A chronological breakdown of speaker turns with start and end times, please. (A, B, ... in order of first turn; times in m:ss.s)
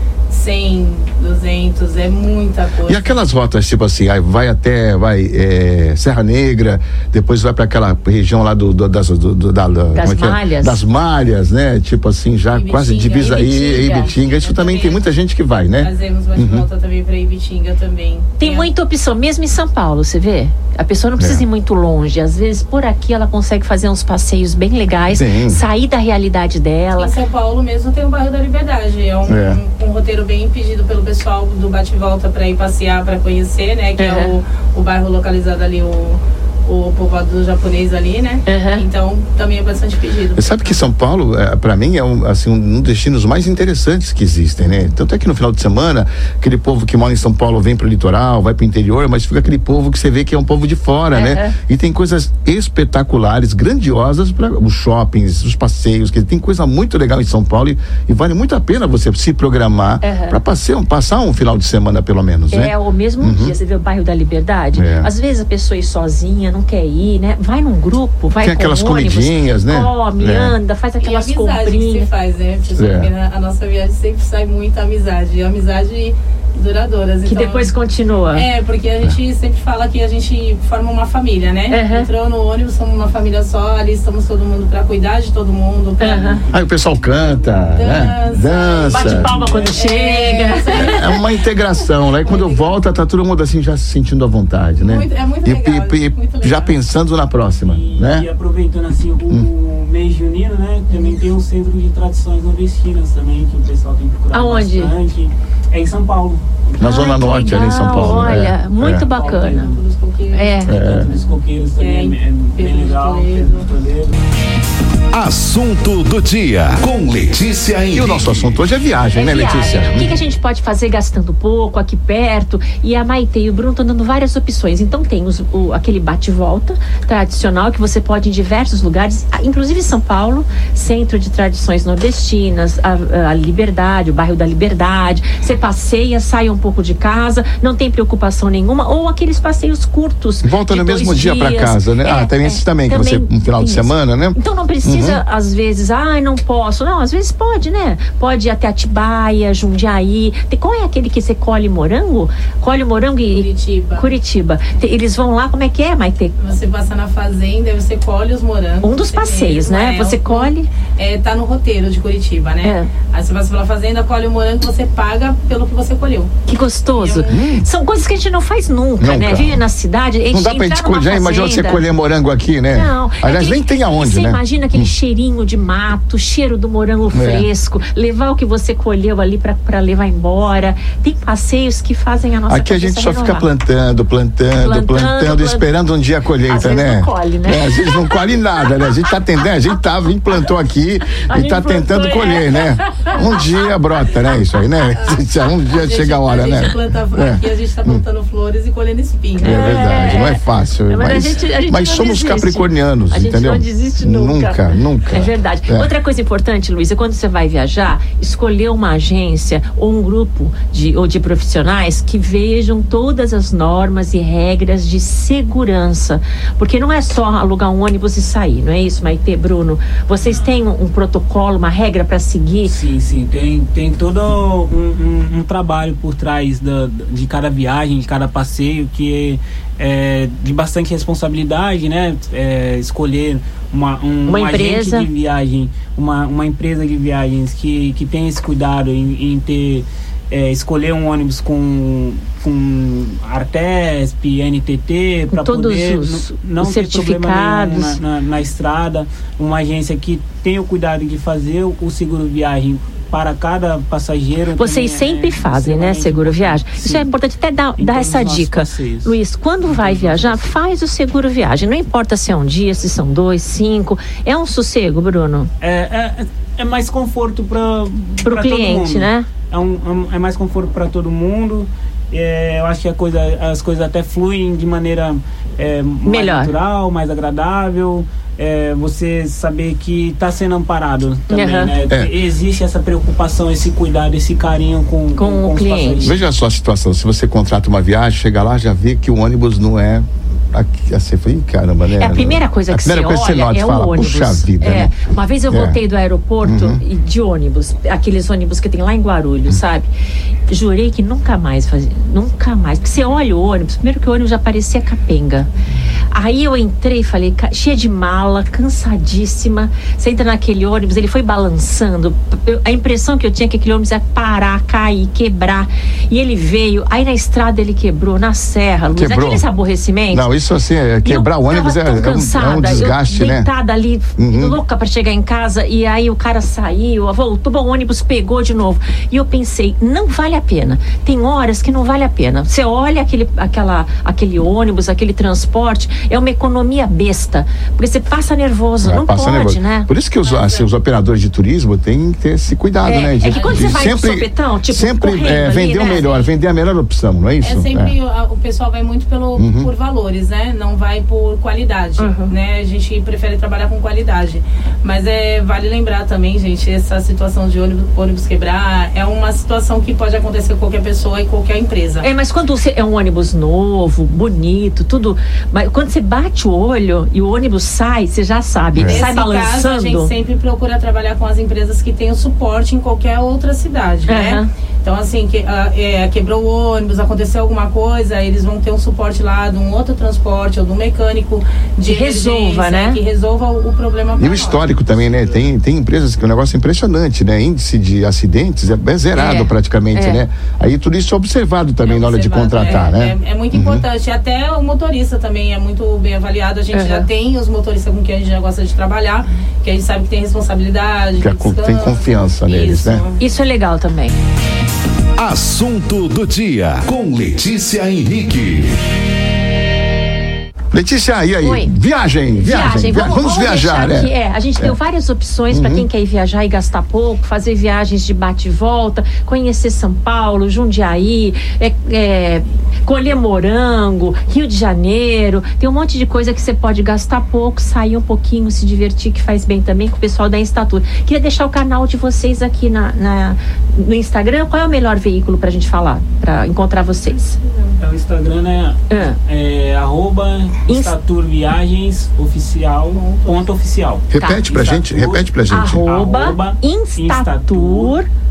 0:00.3-0:03.0 A
0:02.8-0:16.7 B
0:09.9-0:10.8 C
0:12.5-0:15.0 A
0:15.8-0:18.7 A
0:18.4-0:27.1 C
0:21.2-0:21.4 B
0:25.1-0:25.6 B
0:27.0-0:40.8 A
0:29.3-0:29.6 B
0:34.0-0:34.3 C
0:38.5-0:38.8 C
0:40.4-1:03.5 B
0:51.1-0:51.6 C
1:00.0-1:00.4 C
1:02.5-1:12.1 C
1:04.7-1:05.1 B
1:08.4-1:10.6 B
1:11.0-1:17.7 A
1:12.7-1:13.1 B
1:17.2-1:18.5 C
1:18.3-1:26.4 A
1:21.7-1:22.1 C
1:26.0-1:26.4 C
1:26.5-1:29.3 B
1:27.0-1:28.6 D
1:27.8-1:31.2 A
1:28.9-1:31.1 C
1:30.8-1:38.3 B
1:32.2-1:32.8 A
1:34.8-1:36.7 A
1:37.6-1:48.3 D
1:44.3-1:44.9 C
1:46.8-1:49.1 B
1:46.8-1:49.7 C
1:48.8-1:49.8 D
1:49.1-1:51.1 A
1:50.3-1:50.9 C
1:50.6-1:54.2 D
1:50.6-1:51.1 B
1:51.7-1:53.6 A
1:55.1-1:58.6 E
1:57.9-2:00.2 B
1:59.1-2:36.4 C
2:20.4-2:25.2 B
2:33.3-2:34.1 A
2:36.4-2:46.3 A
2:38.8-2:40.7 C
2:42.6-2:42.9 C
2:46.4-2:51.8 C
2:46.9-2:47.3 A
2:47.3-2:47.6 B
2:49.0-2:49.6 B
2:50.3-2:54.9 B
2:52.7-3:03.5 C
2:57.1-2:57.5 B
3:02.5-3:18.0 B
3:04.6-3:05.7 C
3:06.4-3:08.9 C
3:11.1-3:13.5 C
3:15.8-3:20.0 A
3:19.4-3:25.9 B
3:19.4-3:42.7 C
3:40.2-3:40.4 D
3:42.7-4:17.1 D
3:54.3-3:55.1 C
4:05.3-4:08.0 C
4:14.6-4:25.5 C
4:17.8-4:20.5 D
4:25.6-4:46.2 D
4:28.2-4:29.3 C
4:36.0-4:36.5 C
4:41.3-4:41.7 C
4:45.1-4:46.1 C
4:46.0-4:55.0 B
4:52.0-4:59.9 C
4:55.5-4:55.8 B
4:56.4-4:56.8 B
5:00.5-5:05.5 C
5:06.1-5:20.3 C
5:19.0-5:19.4 B
5:20.1-5:23.5 B
5:21.0-5:39.9 C
5:24.2-5:24.6 B
5:38.8-5:47.9 B
5:40.2-5:40.7 A
5:42.8-5:46.2 C
5:43.2-5:43.9 A
5:47.4-6:02.1 A
5:49.4-5:49.7 B
5:52.0-5:52.3 C
6:02.0-6:10.1 C
6:08.7-6:09.0 B
6:08.8-6:24.6 A
6:14.1-6:14.5 C
6:21.9-6:23.0 C
6:24.2-6:33.8 B
6:24.2-6:25.5 D
6:29.1-6:30.2 C
6:31.8-6:43.2 A
6:36.7-6:37.1 C
6:41.2-6:43.0 B
6:43.2-6:44.2 C
6:45.2-6:48.8 E
6:50.7-6:54.8 B
6:51.4-6:51.7 C
6:52.4-7:17.4 C
6:55.5-6:55.9 B
7:17.8-7:28.0 D
7:18.9-7:19.2 C
7:20.7-7:20.9 C
7:22.9-7:23.4 A
7:24.1-7:25.9 B
7:24.1-7:24.4 C
7:25.4-7:28.1 C